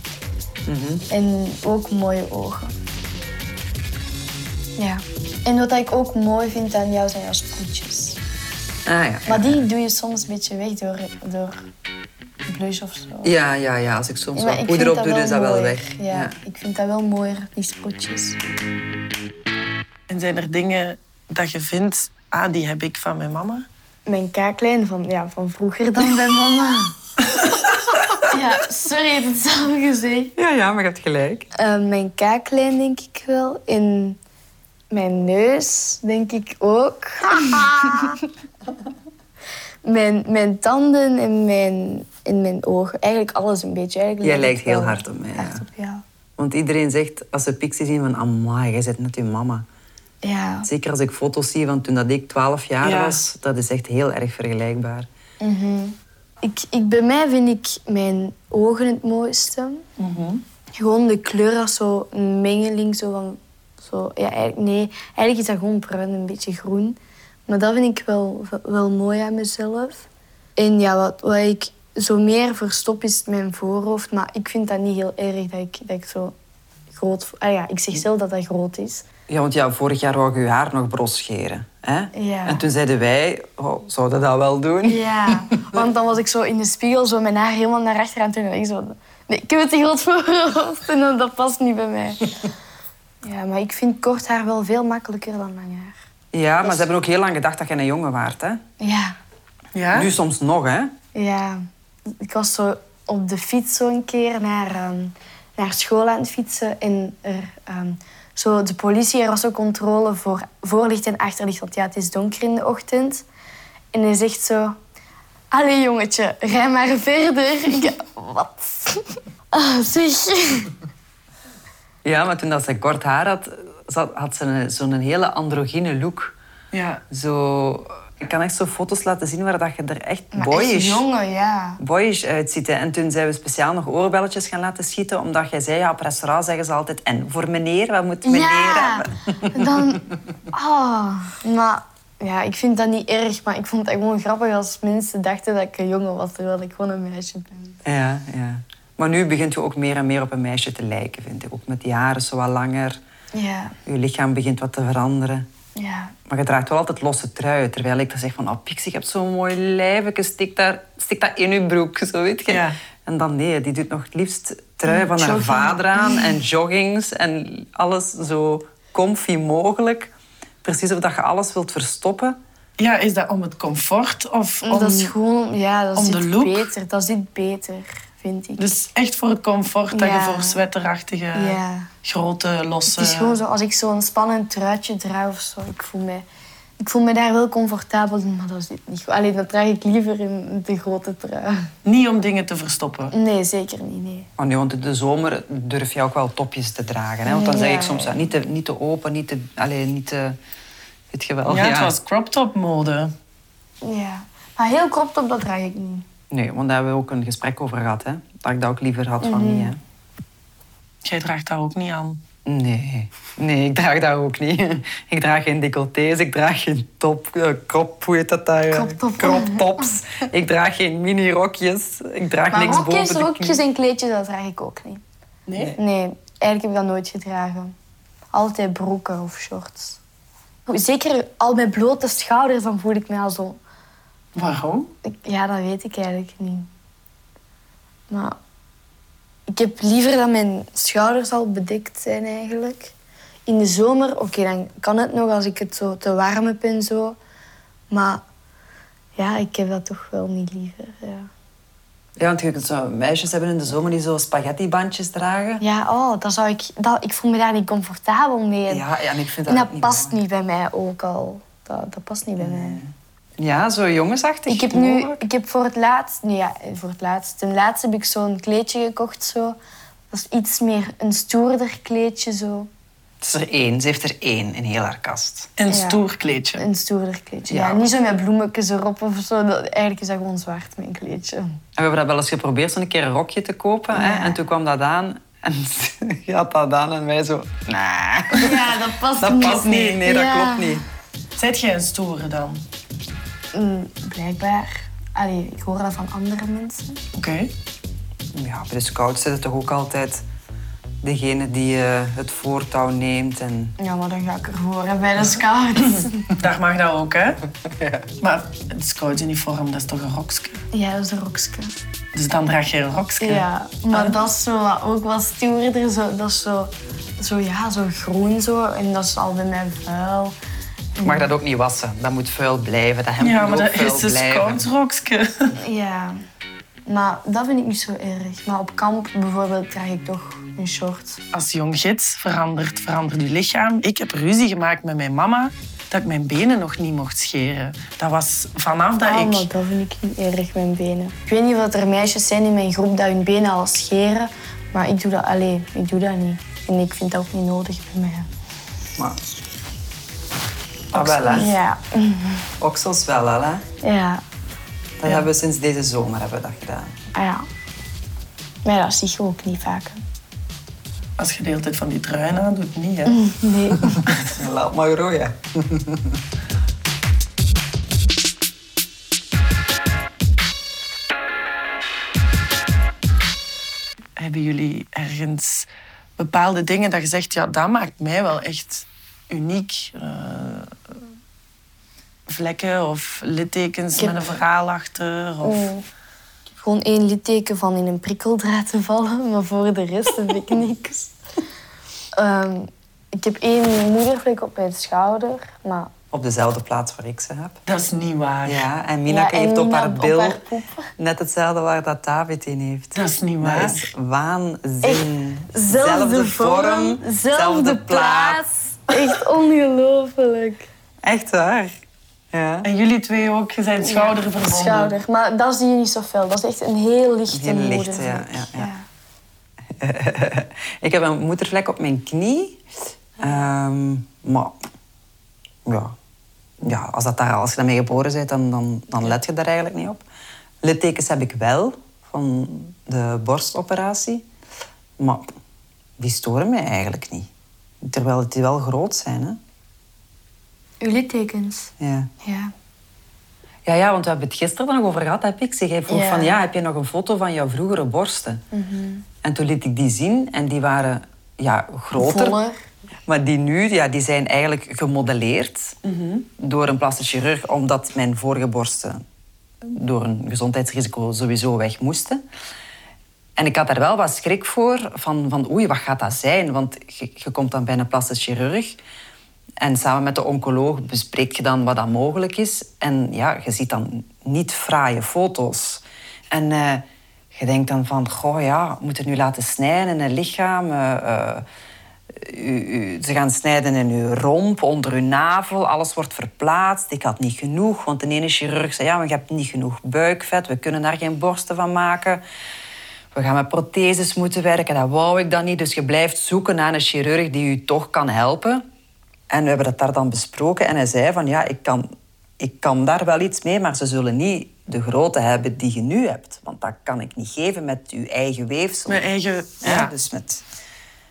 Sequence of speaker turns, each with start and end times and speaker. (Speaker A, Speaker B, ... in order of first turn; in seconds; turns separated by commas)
Speaker A: 0.7-1.0, Speaker B: 1.1-2.7, Speaker B: 4.8-8.2, Speaker A: 8.8-9.6, Speaker B: 9.3-11.6, Speaker B: 12.4-13.3, Speaker A: 13.2-16.3, Speaker B: 14.3-18.4, Speaker C: 20.1-23.6, Speaker B: 24.1-26.9, Speaker B: 28.2-30.3, Speaker A: 30.4-31.5, Speaker B: 31.5-34.2, Speaker B: 34.9-38.2, Speaker B: 39.8-46.0, Speaker A: 44.2-45.6, Speaker A: 46.4-49.6, Speaker B: 50.2-50.7, Speaker A: 50.6-55.1, Speaker C: 52.8-53.2, Speaker B: 55.4-59.8, Speaker C: 60.0-60.4, Speaker B: 60.8-70.0, Speaker B: 70.6-76.3, Speaker B: 76.9-79.0, Speaker A: 79.3-85.4, Speaker B: 82.1-82.6, Speaker B: 84.8-92.4, Speaker B: 93.2-96.0, Speaker A: 96.3-98.6, Speaker B: 98.8-99.2, Speaker C: 99.7-100.1, Speaker A: 99.9-100.9, Speaker B: 101.1-113.2, Speaker B: 113.9-114.8, Speaker B: 115.5-120.7, Speaker A: 122.0-126.3, Speaker C: 126.7-127.0, Speaker A: 127.1-131.0, Speaker B: 130.3-131.8, Speaker A: 131.8-139.9, Speaker B: 138.2-147.8, Speaker A: 147.8-153.0, Speaker B: 153.3-153.8, Speaker A: 153.8-155.5, Speaker B: 155.8-156.1, Speaker A: 156.3-170.1, Speaker C: 162.5-162.8, Speaker B: 164.8-166.3, Speaker A: 170.6-172.4, Speaker C: 172.8-175.1, Speaker B: 174.6-178.8, Speaker C: 175.9-176.7, Speaker C: 178.6-183.4, Speaker B: 179.9-180.6, Speaker B: 181.3-181.9, Speaker B: 182.9-186.2, Speaker B: 186.8-191.7, Speaker C: 191.8-193.1, Speaker B: 193.1-194.3, Speaker A: 194.4-200.4, Speaker B: 197.2-198.3, Speaker A: 201.1-201.9, Speaker C: 201.4-203.1, Speaker B: 203.8-206.1, Speaker A: 206.3-209.8, Speaker B: 209.2-209.7, Speaker C: 211.0-212.2, Speaker A: 212.4-223.6, Speaker B: 218.7-220.0, Speaker B: 222.5-225.0, Speaker C: 225.5-225.7, Speaker B: 225.8-227.7, Speaker B: 228.3-230.0, Speaker B: 230.7-233.6, Speaker C: 234.3-234.9, Speaker B: 235.0-236.7, Speaker B: 238.1-238.4, Speaker B: 239.5-242.9, Speaker B: 243.4-247.2, Speaker B: 247.9-248.2, Speaker B: 249.2-251.3, Speaker A: 252.2-255.6, Speaker B: 255.6-258.8, Speaker A: 258.7-260.1, Speaker B: 259.5-262.8, Speaker A: 262.4-265.2, Speaker B: 264.5-269.6, Speaker B: 270.1-272.7, Speaker A: 273.2-275.5, Speaker C: 275.6-276.6, Speaker B: 275.7-276.0, Speaker B: 276.6-281.6, Speaker A: 277.5-277.8, Speaker A: 281.8-290.8, Speaker B: 283.9-284.4, Speaker B: 288.3-290.8, Speaker C: 289.5-289.9, Speaker C: 291.4-292.6, Speaker B: 293.5-297.0, Speaker C: 297.1-297.5, Speaker A: 298.3-300.2, Speaker A: 301.0-303.8, Speaker B: 303.8-306.3, Speaker C: 306.4-307.4, Speaker A: 307.6-308.1, Speaker C: 308.2-310.6, Speaker B: 310.7-311.7, Speaker C: 312.1-314.2, Speaker B: 313.2-320.3, Speaker B: 320.9-321.3, Speaker A: 321.0-324.6, Speaker C: 323.2-325.5, Speaker B: 325.6-326.2, Speaker B: 326.9-331.2, Speaker C: 331.3-339.5, Speaker B: 339.0-348.3, Speaker C: 350.9-351.5, Speaker A: 350.9-351.5, Speaker B: 351.3-352.5, Speaker A: 352.6-353.6, Speaker B: 353.8-354.2, Speaker A: 355.0-356.9, Speaker B: 357.1-357.4, Speaker B: 358.6-360.0, Speaker C: 361.2-363.2, Speaker B: 363.1-364.0, Speaker A: 364.2-366.2, Speaker C: 374.2-380.7, Speaker C: 382.3-385.7, Speaker B: 385.4-385.8, Speaker B: 386.6-391.1, Speaker B: 392.2-395.9, Speaker A: 396.1-397.6, Speaker C: 397.6-398.6, Speaker A: 398.4-400.4, Speaker B: 399.1-400.9, Speaker A: 401.0-408.4, Speaker C: 402.9-403.9, Speaker B: 404.8-410.7, Speaker A: 411.0-411.7, Speaker A: 412.3-412.7, Speaker C: 412.6-414.9, Speaker B: 413.8-418.8, Speaker A: 417.3-418.7, Speaker A: 419.7-422.6, Speaker A: 423.2-424.5, Speaker A: 425.6-425.9, Speaker A: 426.6-430.0, Speaker A: 430.6-434.2, Speaker A: 435.0-435.4, Speaker A: 436.0-437.3, Speaker A: 437.8-439.4, Speaker B: 440.8-442.5, Speaker A: 441.8-442.1, Speaker A: 443.6-448.4, Speaker B: 445.9-446.4, Speaker B: 448.5-449.0, Speaker A: 449.2-452.4, Speaker B: 451.9-452.6, Speaker A: 453.1-455.8, Speaker C: 455.8-456.2, Speaker A: 456.4-459.0, Speaker A: 459.6-462.2, Speaker A: 463.4-468.8, Speaker A: 469.6-481.4, Speaker A: 482.1-492.2, Speaker A: 493.1-498.6, Speaker A: 499.3-501.9, Speaker A: 502.4-509.1, Speaker C: 508.9-509.9, Speaker A: 509.6-510.4